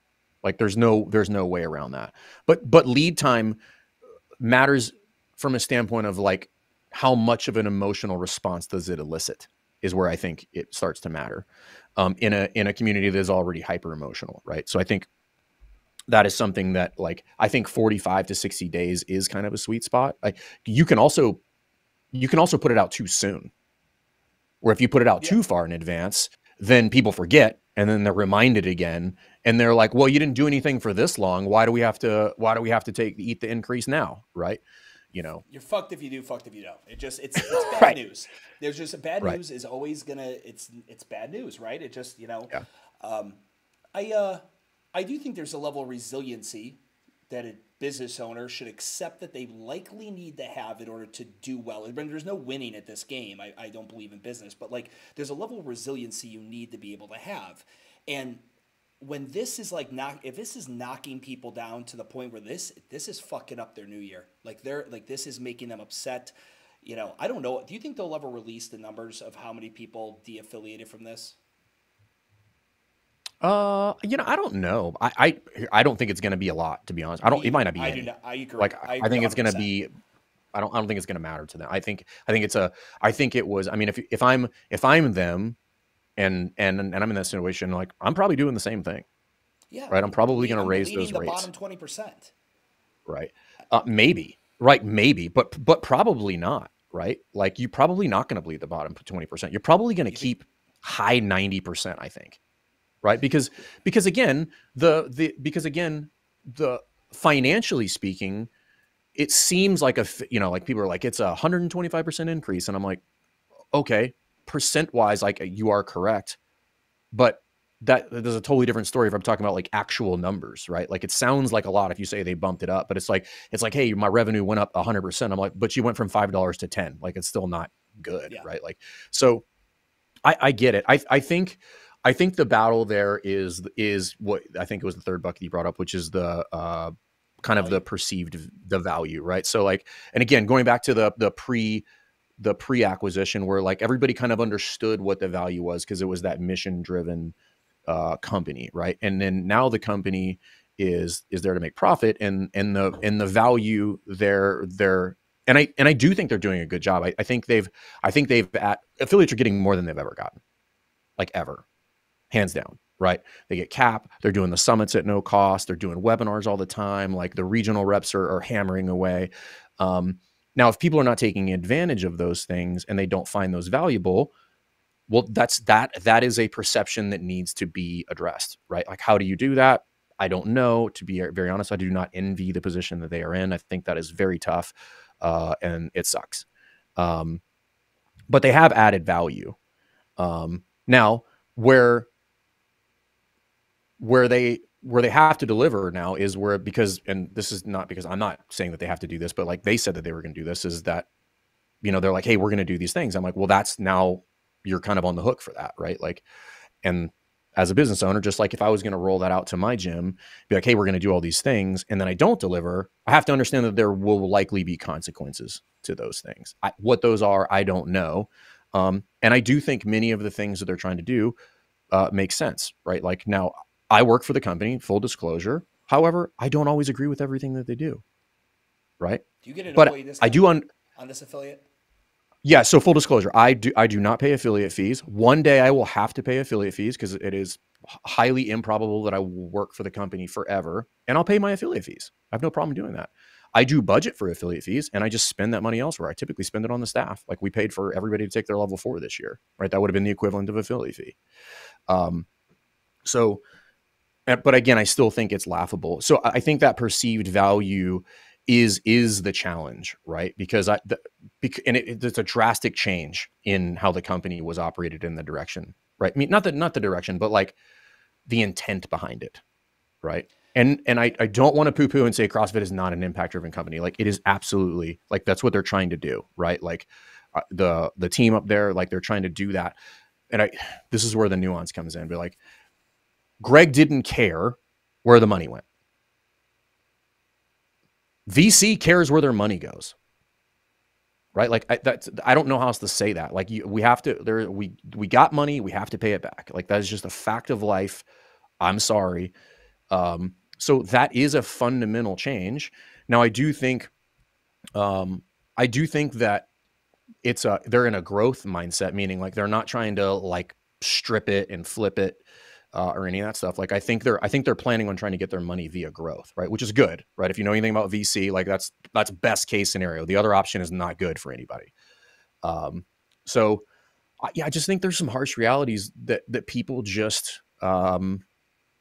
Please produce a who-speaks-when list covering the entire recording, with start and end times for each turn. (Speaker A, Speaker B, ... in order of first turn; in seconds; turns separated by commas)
Speaker A: 0.4-3.6, Speaker A: 4.4-15.1, Speaker A: 16.1-21.4, Speaker A: 22.1-23.5, Speaker A: 24.6-35.4, Speaker B: 35.5-43.4, Speaker A: 37.5-38.0, Speaker B: 43.9-44.4, Speaker B: 45.0-58.4, Speaker B: 59.0-71.4, Speaker A: 73.4-79.9, Speaker B: 77.3-79.7, Speaker A: 80.5-85.6, Speaker A: 86.2-89.0, Speaker B: 89.7-92.3, Speaker A: 89.9-91.5, Speaker A: 93.1-102.4, Speaker A: 103.0-108.5, Speaker A: 109.2-113.0, Speaker A: 113.7-116.4, Speaker A: 117.1-129.4, Speaker A: 130.2-141.8, Speaker B: 137.6-137.8, Speaker A: 142.4-147.3, Speaker A: 147.9-160.4, Speaker A: 161.2-161.7, Speaker A: 162.3-174.3, Speaker A: 175.1-186.5, Speaker A: 187.0-187.4, Speaker A: 188.3-189.6, Speaker A: 190.2-192.1, Speaker A: 194.0-201.1, Speaker A: 201.8-206.2, Speaker A: 206.8-221.3, Speaker A: 221.9-228.0, Speaker A: 229.0-230.7, Speaker B: 229.4-231.6, Speaker A: 232.4-251.2, Speaker A: 251.9-252.3, Speaker A: 253.0-253.4, Speaker A: 254.3-267.6, Speaker A: 268.3-269.4, Speaker A: 270.0-279.8, Speaker A: 280.3-282.4, Speaker A: 283.4-285.6, Speaker A: 288.3-289.9, Speaker A: 291.4-298.1, Speaker A: 298.6-299.3, Speaker A: 299.9-303.9, Speaker A: 304.8-306.5, Speaker A: 307.2-321.7, Speaker A: 322.4-323.6, Speaker A: 324.2-328.2